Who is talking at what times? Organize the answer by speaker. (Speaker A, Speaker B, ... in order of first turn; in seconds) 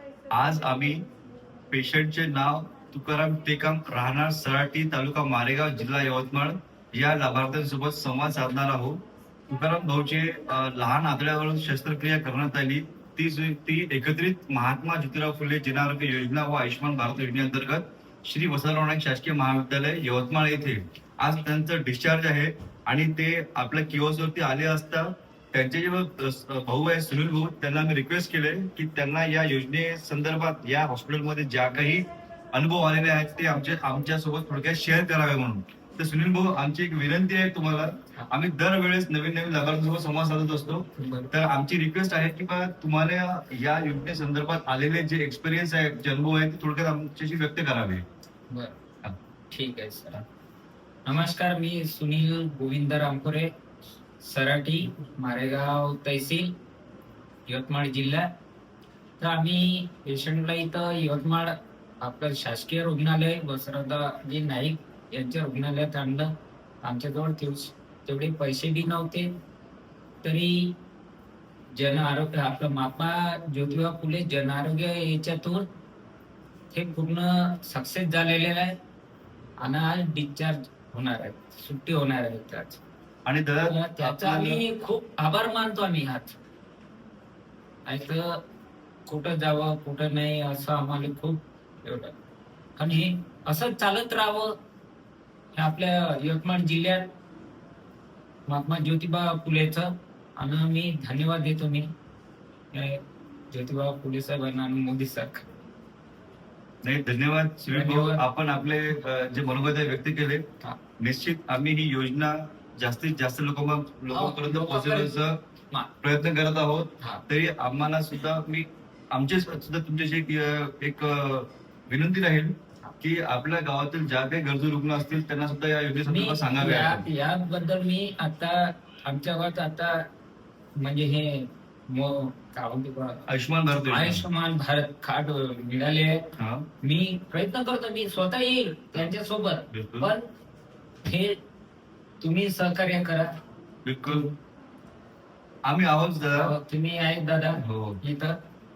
Speaker A: 0.3-1.1, 1.7-48.0, 83.2-84.6, 106.8-110.5, 111.0-115.4, 116.0-127.1, 133.3-134.2, 136.4-136.7, 139.7-140.1, 143.8-144.3, 145.6-146.5, 147.6-148.0
Speaker B: 41.0-41.3, 48.5-48.8, 49.5-50.2, 51.0-53.5, 54.2-56.5, 57.5-58.3, 59.2-66.3, 66.8-69.3, 70.2-70.8, 71.7-75.7, 76.7-78.8, 79.6-82.8, 83.6-86.3, 87.8-88.4, 89.0-92.1, 92.8-94.6, 95.5-97.1, 98.5-101.9, 102.7-105.5, 107.6-108.2, 114.1-115.2, 126.0-130.1, 130.8-133.2, 133.9-136.3, 136.8-140.2, 141.0-141.4, 142.2-143.3, 144.1-144.3, 146.3-148.4